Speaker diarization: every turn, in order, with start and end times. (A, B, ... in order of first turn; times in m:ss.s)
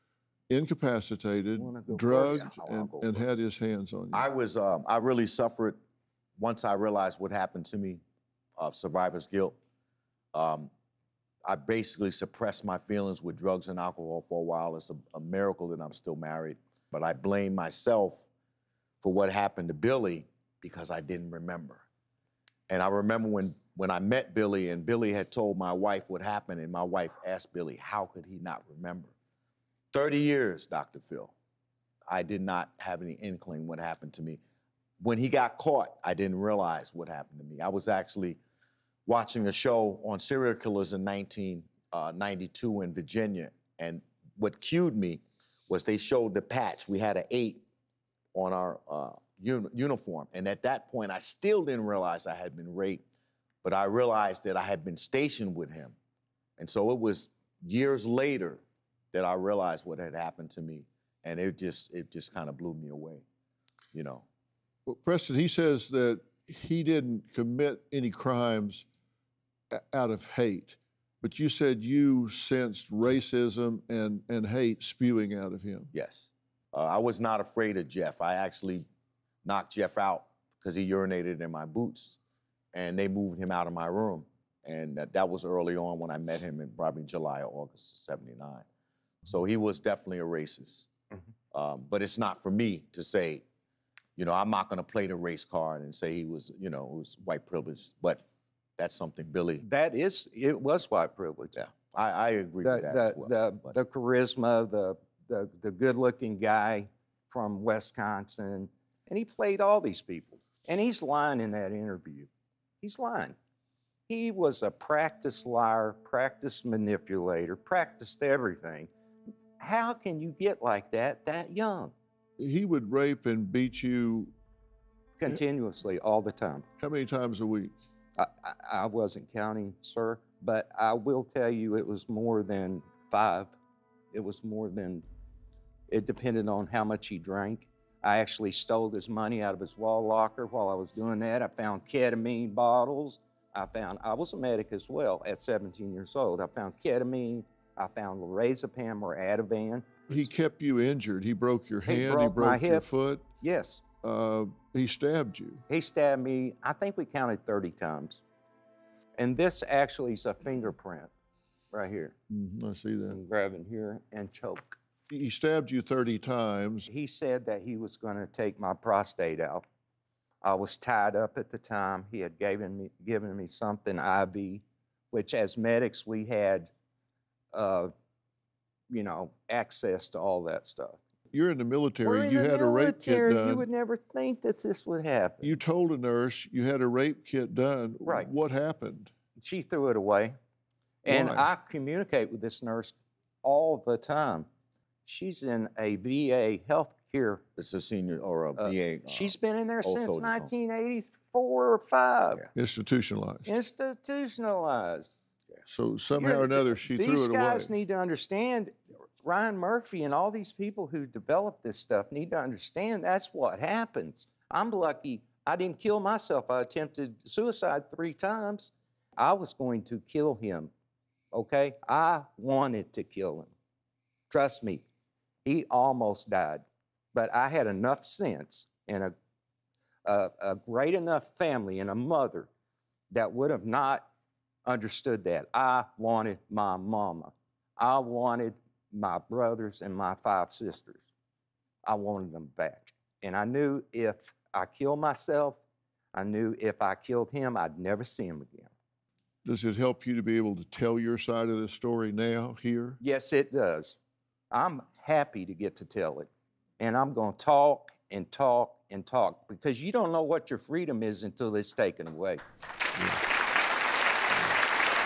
0:00.5-0:04.3 A
0:01.6-0:03.4 B
0:02.1-0:02.5 C
0:04.1-0:05.8 C
0:06.4-0:08.0 C
0:08.6-0:09.6 C
0:10.3-0:10.7 C
0:11.5-0:18.3 C
0:19.0-0:21.8 C
0:22.7-0:29.2 C
0:29.9-0:31.3 C
0:32.1-0:34.4 C
0:35.0-0:38.4 C
0:39.1-0:47.6 C
0:48.3-0:53.0 C
0:53.6-0:56.0 C
0:56.6-1:03.2 C
1:03.9-1:04.3 C
1:04.9-1:08.9 A
1:09.7-1:15.9 A
1:15.9-1:18.9 C
1:19.4-1:22.2 C
1:22.7-1:28.7 C
1:29.2-1:30.9 C
1:31.5-1:33.4 C
1:34.2-1:38.2 C
1:38.8-1:39.6 C
1:39.6-1:41.6 B
1:41.6-1:43.8 C
1:42.6-1:52.3 B
1:52.8-1:53.4 B
1:54.1-1:58.9 B
1:59.6-2:01.9 B
2:02.4-2:04.3 A
2:05.2-2:06.7 B
2:06.8-2:07.8 A
2:08.2-2:13.6 B
2:14.1-2:15.0 B
2:15.9-2:30.3 B
2:30.1-2:33.3 A
2:31.9-2:32.9 B
2:33.4-2:33.8 B
2:34.0-2:35.6 A
2:35.7-2:38.2 B
2:39.2-2:41.1 B
2:41.7-2:42.2 B
2:42.3-2:43.2 A
2:43.1-2:44.8 B
2:45.1-2:46.9 A
2:46.9-2:49.7 B
2:50.4-2:56.7 B
2:57.5-2:57.9 B
2:58.9-3:01.0 B
3:01.3-3:03.7 A
3:02.0-3:05.6 B
3:05.4-3:09.1 A
3:08.0-3:08.3 B
3:09.4-3:10.4 B
3:11.0-3:14.5 B
3:11.1-3:11.5 A
3:15.1-3:17.4 B
3:17.6-3:20.5 C
3:18.6-3:22.5 B
3:22.5-3:23.5 A
3:23.5-3:25.2 B
3:25.7-3:27.7 A
3:26.1-3:40.7 B
3:41.3-3:43.5 B
3:44.3-3:44.8 B
3:45.4-3:49.1 B
3:50.0-3:52.5 B
3:53.1-3:54.1 B
3:54.6-4:01.1 B
4:01.8-4:05.6 B
4:06.1-4:08.7 B
4:09.4-4:13.0 A
4:13.0-4:14.0 B
4:14.5-4:16.3 B
4:16.8-4:22.4 B